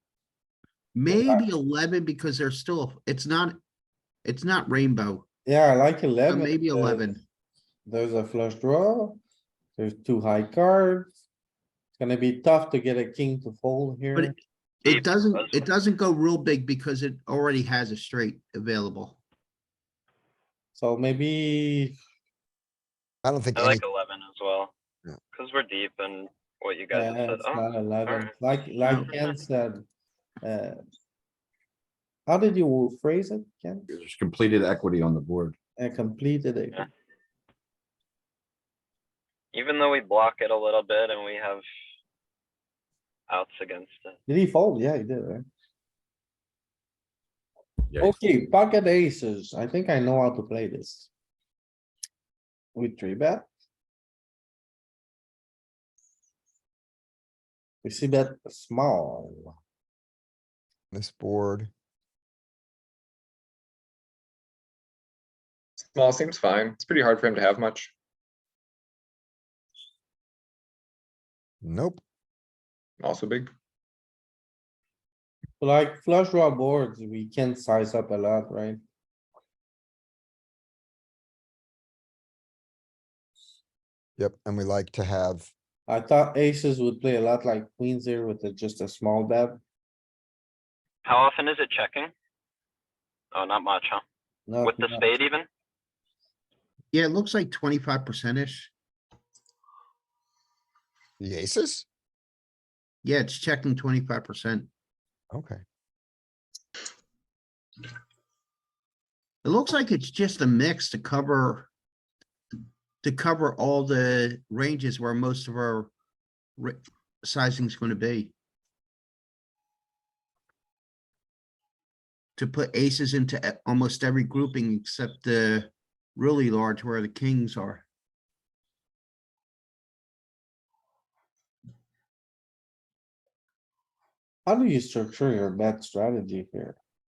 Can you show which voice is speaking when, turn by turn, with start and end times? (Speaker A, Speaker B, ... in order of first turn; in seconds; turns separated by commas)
Speaker A: 0.9-3.6, Speaker B: 1.1-1.4, Speaker A: 4.2-5.2, Speaker B: 5.5-7.2, Speaker A: 6.3-7.2, Speaker B: 7.9-9.2, Speaker B: 9.8-11.1, Speaker B: 12.0-14.3, Speaker A: 14.2-19.2, Speaker C: 14.8-15.7, Speaker B: 20.8-21.9, Speaker D: 23.2-23.8, Speaker C: 23.6-24.7, Speaker C: 25.3-28.3, Speaker B: 26.9-29.8, Speaker A: 28.8-29.1, Speaker B: 30.4-30.8, Speaker B: 32.3-33.9, Speaker E: 33.9-35.5, Speaker B: 35.8-36.9, Speaker C: 39.5-41.6, Speaker C: 43.3-44.2, Speaker B: 44.3-45.5, Speaker E: 47.9-48.2, Speaker B: 48.0-51.1, Speaker B: 52.8-53.5, Speaker B: 57.8-59.5, Speaker D: 60.9-61.7, Speaker F: 65.8-67.9, Speaker D: 71.6-72.0, Speaker F: 73.0-73.5, Speaker B: 75.6-78.8, Speaker D: 84.2-85.5, Speaker B: 85.9-89.6, Speaker C: 91.0-92.1, Speaker C: 93.3-94.0, Speaker B: 94.5-95.1, Speaker C: 94.6-95.5, Speaker A: 96.9-98.7, Speaker D: 101.2-101.8, Speaker A: 103.0-104.7, Speaker D: 105.3-105.6, Speaker A: 109.4-111.7, Speaker A: 113.0-115.9, Speaker A: 116.6-118.3, Speaker A: 122.4-127.8, Speaker B: 134.5-136.8